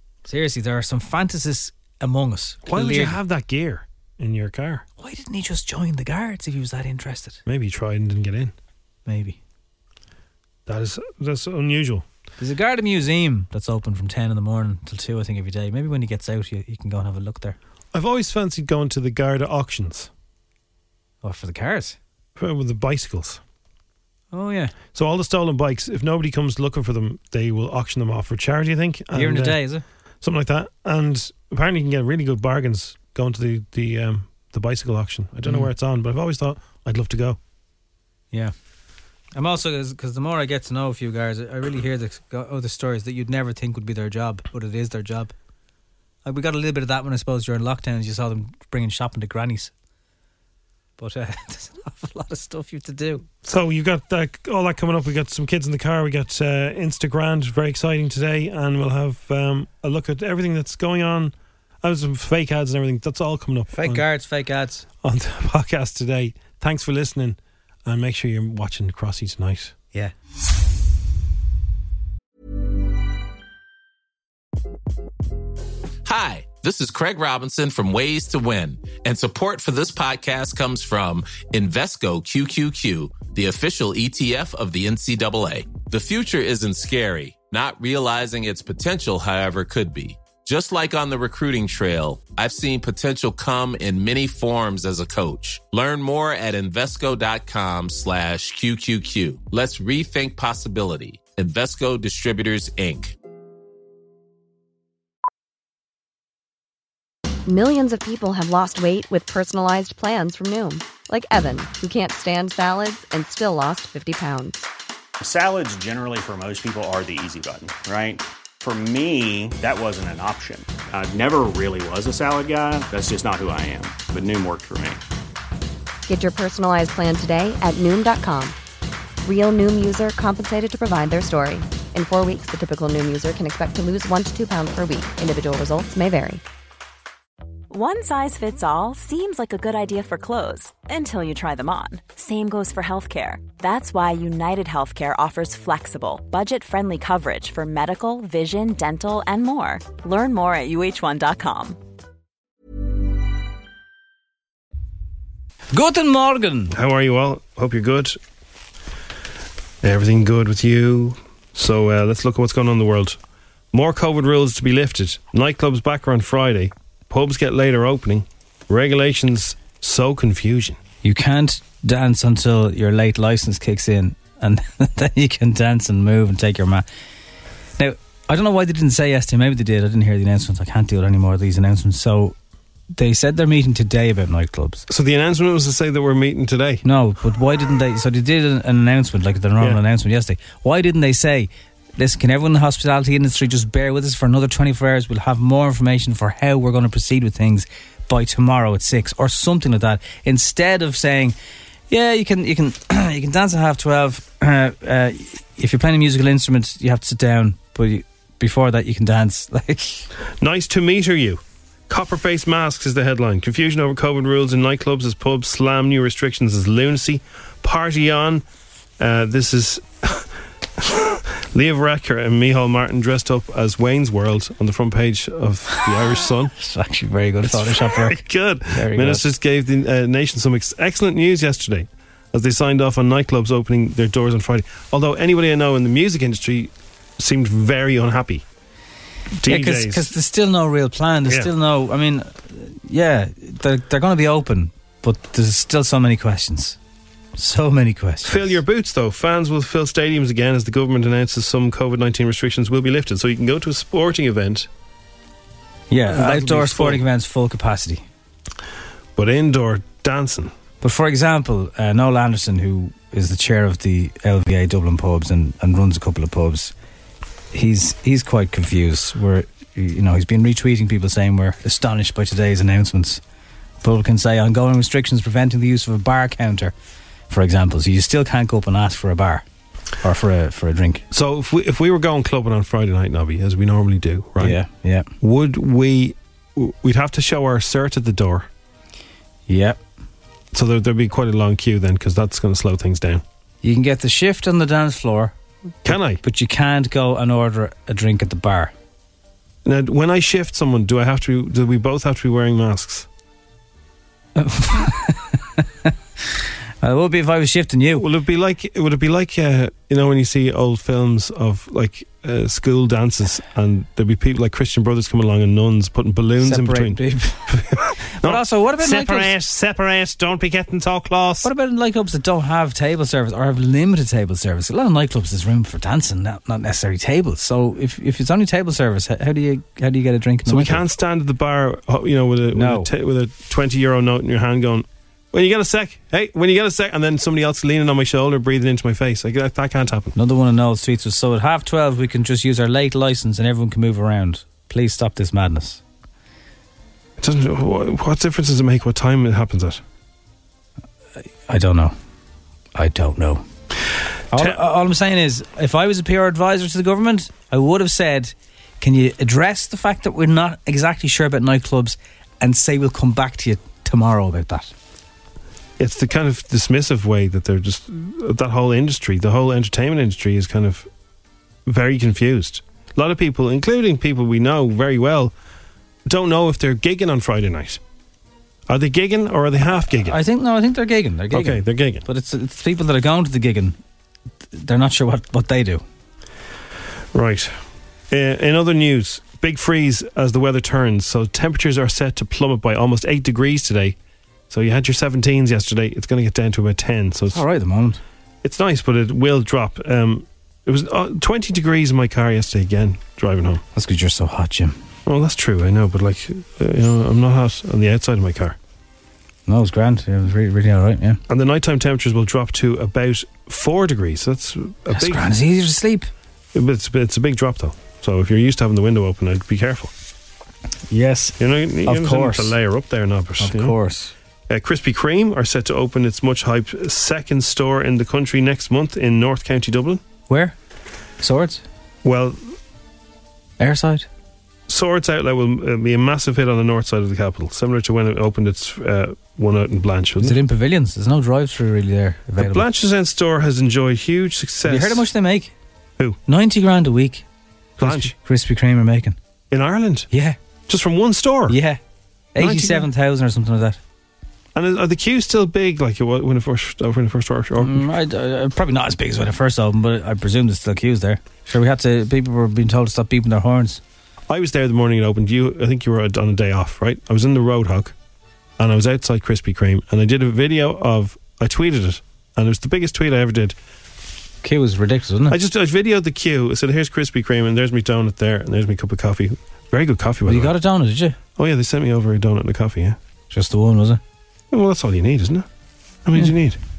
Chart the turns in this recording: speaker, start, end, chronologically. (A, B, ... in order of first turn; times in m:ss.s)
0:00.2-0:03.2 A
0:02.7-0:04.8 B
0:05.0-0:07.4 A
0:07.5-0:08.5 B
0:09.1-0:09.4 A
0:10.7-0:12.1 B
0:12.4-0:17.6 A
0:17.9-0:20.1 B
0:21.2-0:22.0 A
0:22.4-0:23.4 B
0:24.3-0:24.7 A
0:24.9-0:29.6 B
0:29.1-0:29.8 A
0:30.2-0:37.4 B
0:39.4-0:45.3 A
0:46.2-0:49.7 A
0:51.0-0:53.2 A
0:53.4-1:04.1 B
1:03.7-1:04.8 A
1:05.0-1:09.7 B
1:16.0-1:43.2 C
1:47.5-1:54.7 D
1:55.2-2:05.0 E
2:06.1-2:08.6 D
2:09.2-2:16.4 D
2:17.7-2:31.8 F
2:35.7-2:36.8 A
2:36.7-2:38.2 B
2:39.8-2:43.2 B
2:43.7-2:50.8 B
2:51.0-2:56.8 A
2:57.8-3:02.4 A
3:02.9-3:04.9 A
3:04.9-3:06.8 B
3:06.8-3:21.4 A
3:21.9-3:30.1 A
3:30.4-3:38.4 B
3:39.0-3:40.3 B
3:40.8-3:46.5 B
3:46.6-3:49.2 A
3:47.5-3:58.4 B
3:59.4-4:00.1 B
3:59.4-4:06.8 A
4:07.4-4:08.6 A
4:08.3-4:14.7 B
4:15.9-4:18.0 A
4:16.1-4:17.0 B
4:19.2-4:20.5 B
4:20.8-4:26.7 A
4:27.5-4:33.2 A
4:33.8-4:36.7 A
4:37.3-4:39.4 A
4:40.0-4:41.0 A
4:41.1-4:44.6 B
4:44.4-4:45.1 A
4:45.2-4:48.5 B
4:49.5-4:49.8 A
4:50.5-4:53.2 B
4:53.6-4:55.3 A
4:55.8-4:56.2 B
4:55.9-4:58.7 A
4:59.6-5:03.1 B
5:04.4-5:05.9 A
5:06.8-5:08.0 A
5:08.0-5:21.5 B
5:16.4-5:17.6 A
5:18.2-5:19.3 A
5:21.4-5:30.8 A
5:30.5-5:40.1 B
5:32.5-5:32.9 A
5:40.2-5:45.8 A
5:47.2-5:49.8 B
5:51.2-5:52.0 A
5:52.8-5:53.4 A
5:54.3-6:04.7 A
6:05.8-6:10.9 B
6:11.7-6:15.3 B
6:16.1-6:17.8 B
6:18.7-6:20.2 B
6:19.8-6:23.8 A
6:21.3-6:22.0 B
6:24.5-6:25.8 A
6:27.1-6:27.5 B
6:28.1-6:34.0 B
6:34.5-6:37.4 B
6:37.3-6:38.0 A
6:38.4-6:43.6 B
6:43.8-6:44.8 A
6:45.1-6:48.6 B
6:49.5-6:51.2 A
6:51.3-6:55.3 B
6:54.9-6:56.1 A
6:56.6-6:59.9 B
7:00.9-7:01.4 A
7:01.4-7:03.7 B
7:01.9-7:02.6 A
7:03.4-7:04.1 A
7:04.5-7:10.0 B
7:10.3-7:10.6 A
7:11.2-7:11.6 A
7:12.0-7:12.4 B
7:13.6-7:14.1 A
7:14.7-7:20.4 B
7:20.2-7:22.7 A
7:22.4-7:25.0 B
7:24.6-7:25.5 A
7:26.3-7:27.2 A
7:27.8-7:28.1 B
7:27.8-7:29.2 A
7:29.5-7:30.1 B
7:30.1-7:30.4 A
7:30.7-7:31.6 B
7:31.5-7:31.8 A
7:32.4-7:33.8 A
7:32.4-7:32.9 B
7:34.6-7:37.9 B
7:37.6-7:43.8 A
7:44.3-7:47.9 B
7:48.6-7:53.6 B
7:54.4-7:55.4 A
7:55.3-8:00.5 B
8:00.3-8:01.2 A
8:01.4-8:03.0 B
8:03.3-8:04.0 A
8:04.5-8:05.5 B
8:06.0-8:06.6 B